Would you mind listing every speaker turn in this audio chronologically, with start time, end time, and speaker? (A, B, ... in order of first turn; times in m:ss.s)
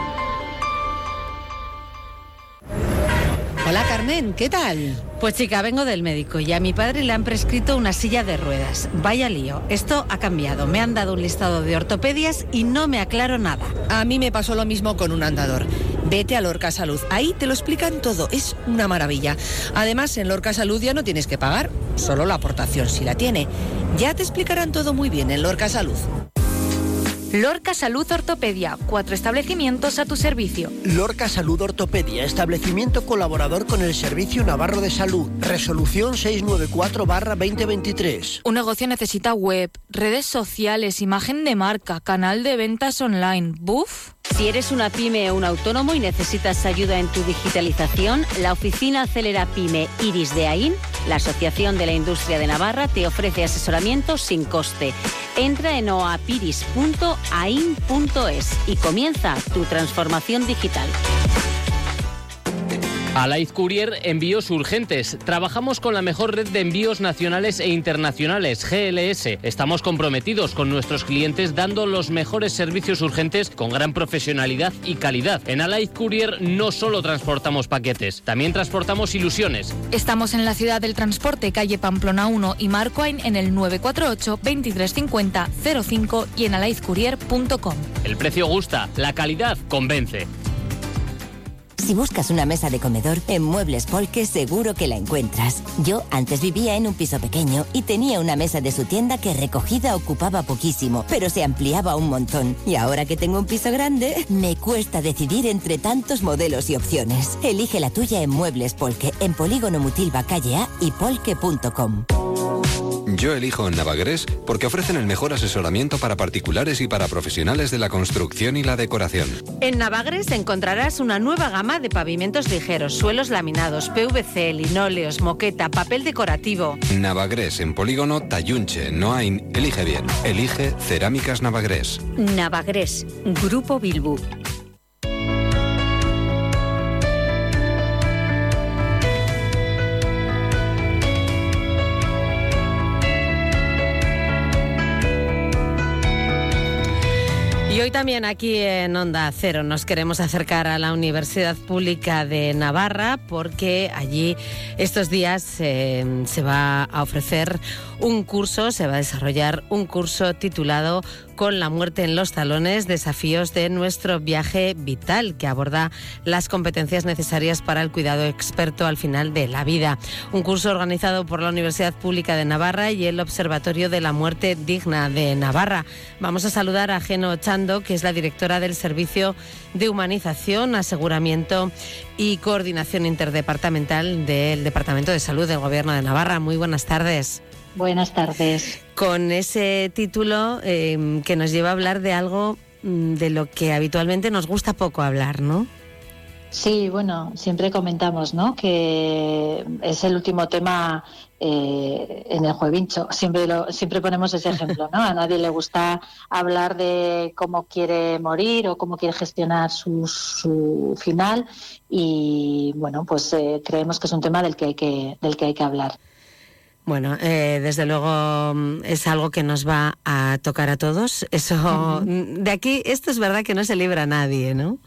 0:03.6-0:05.0 A
0:05.2-0:13.7 B
0:13.9-0:26.0 A
0:27.3-0:30.7 C
0:30.8-0:38.4 D
0:38.4-0:44.1 C
0:44.4-0:54.4 E
0:55.8-0:56.6 E
0:59.3-0:59.6 E
1:03.2-1:19.7 F
1:19.9-1:27.9 C
1:28.0-1:30.3 F
1:31.8-1:52.0 G
1:53.1-1:59.4 H
1:59.6-2:06.8 B
2:06.9-2:12.0 H
2:27.7-3:07.4 B
3:07.8-3:08.7 I
3:08.9-3:15.7 B
3:16.5-3:36.0 I
3:36.8-3:44.8 B
3:41.7-3:42.1 I